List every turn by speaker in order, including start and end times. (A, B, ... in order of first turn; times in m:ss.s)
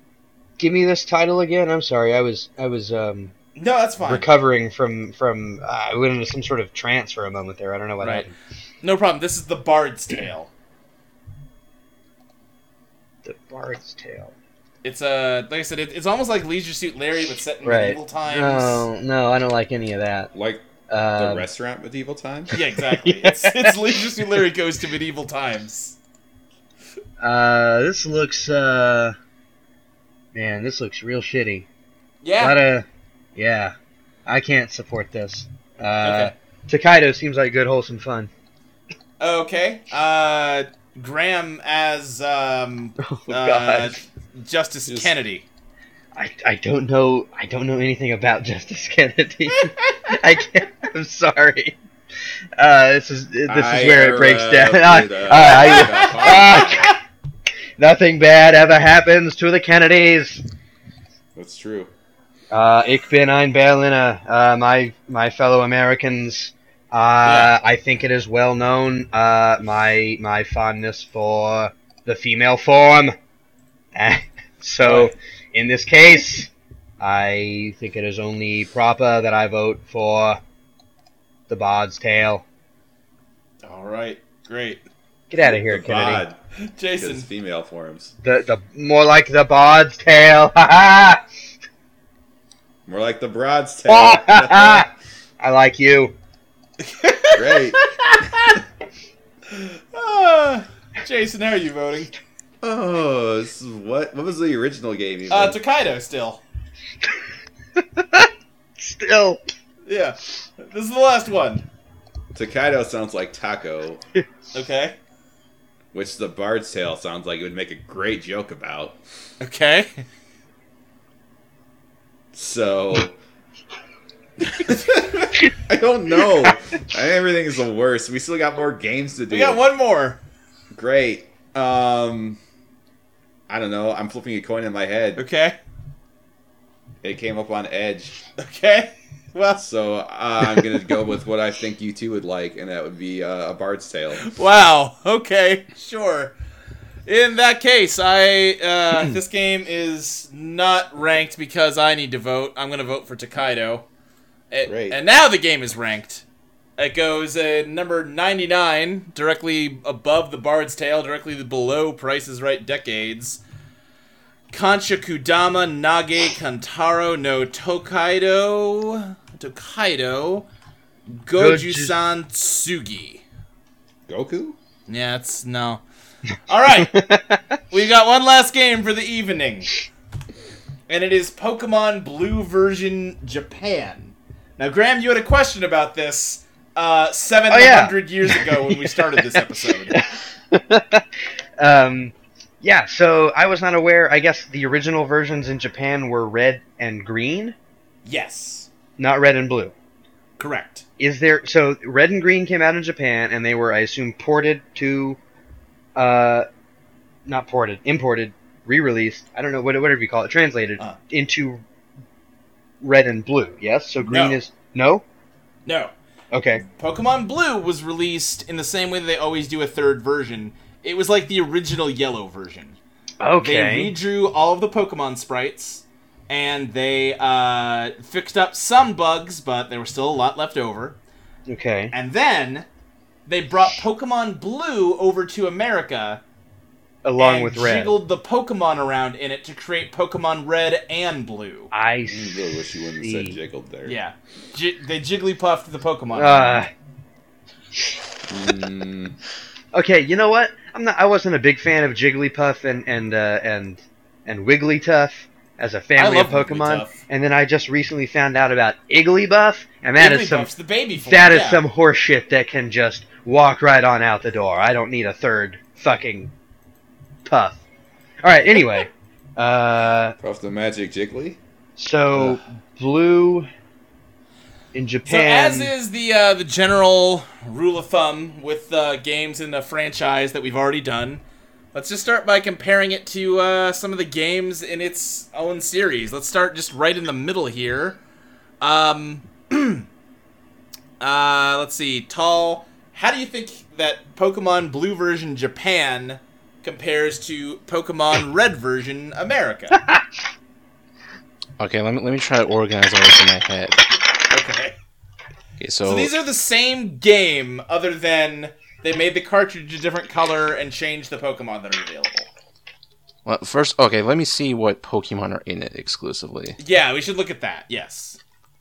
0:00.6-0:03.3 A
0:03.6-0:04.2 B
0:04.0-0:08.3 A
0:08.0-0:08.3 B
0:08.8-0:10.5 B
0:13.2-0:14.3 A
0:14.8-0:18.8 B
0:17.6-0:20.3 A
0:20.3-0:20.6 C
0:20.9-0:21.5 A
0:21.2-0:22.5 C
0:22.5-0:26.0 B
0:22.9-0:24.0 A
0:27.2-0:29.1 A
0:30.3-0:31.7 A
0:32.2-0:32.6 B
0:32.4-0:33.7 A
0:34.2-0:38.3 A
0:36.0-0:36.3 B
0:39.2-0:45.4 B
0:43.0-0:44.0 A
0:44.9-0:45.1 C
0:46.1-0:51.8 A
0:52.6-0:57.0 A
0:53.5-0:56.8 C
0:55.7-0:56.7 B
0:57.8-1:00.4 A
1:01.3-1:01.9 C
1:02.5-1:13.1 A
1:07.2-1:07.5 B
1:13.9-1:20.4 A
1:14.8-1:15.1 B
1:21.5-1:22.4 A
1:23.6-1:24.8 B
1:25.3-1:26.2 A
1:25.5-1:26.4 C
1:26.6-1:27.3 B
1:27.0-1:28.1 C
1:28.2-1:31.2 A
1:32.8-1:34.9 C
1:33.9-1:34.9 A
1:35.4-1:36.2 A
1:36.8-1:38.6 B
1:37.4-1:37.8 C
1:39.5-1:42.1 B
1:42.6-1:45.6 C
1:45.3-1:46.4 B
1:47.8-1:49.4 A
1:49.8-1:51.6 B
1:52.3-1:54.0 C
1:54.5-1:55.0 B
1:55.9-1:59.0 C
1:59.4-2:00.0 B
2:02.3-2:03.2 C
2:04.6-2:09.6 C
2:09.3-2:10.2 B
2:10.7-2:12.4 C
2:13.5-2:15.2 C
2:15.2-2:15.6 B
2:17.0-2:18.2 C
2:18.4-2:19.6 B
2:19.6-2:24.2 C
2:20.5-2:21.0 B
2:24.2-2:26.3 B
2:27.0-2:33.8 B
2:34.5-2:36.2 B
2:34.6-2:35.0 C
2:36.8-2:43.4 B
2:44.5-2:50.5 B
2:51.1-2:53.2 B
2:51.3-2:52.0 A
2:54.1-2:54.6 C
2:54.9-2:55.8 B
2:56.5-2:57.0 B
2:56.8-2:57.6 A
2:57.7-2:59.7 B
3:00.9-3:10.0 B
3:07.5-3:11.0 A
3:11.6-3:17.6 A
3:18.0-3:18.7 B
3:19.0-3:19.7 A
3:20.4-3:20.8 B
3:21.0-3:25.2 A
3:26.0-3:26.5 A
3:27.2-3:31.6 A
3:32.8-3:35.0 A
3:34.0-3:34.4 B
3:35.6-3:35.9 B
3:36.3-3:36.6 A
3:36.8-3:42.8 B
3:43.2-3:43.9 A
3:43.4-3:51.0 B
3:51.5-3:51.9 A
3:51.9-3:52.7 B
3:53.3-3:56.2 B
3:57.0-3:58.0 A
3:57.2-4:01.7 B
4:01.7-4:03.4 A
4:02.1-4:04.0 C
4:03.8-4:06.6 B
4:06.1-4:06.7 A
4:08.3-4:09.1 C
4:09.7-4:26.3 A
4:16.0-4:17.0 B
4:20.0-4:21.6 B
4:27.2-4:27.6 A
4:28.2-4:30.2 A
4:30.2-4:31.4 C
4:31.8-4:33.5 A
4:34.7-4:35.7 A
4:35.1-4:48.0 B
4:48.6-4:49.8 B
4:51.0-4:59.8 B
5:01.6-5:03.8 D
5:04.3-5:04.8 B
5:05.6-5:06.1 D
5:05.8-5:12.3 B
5:13.2-5:16.6 D
5:16.6-5:18.2 B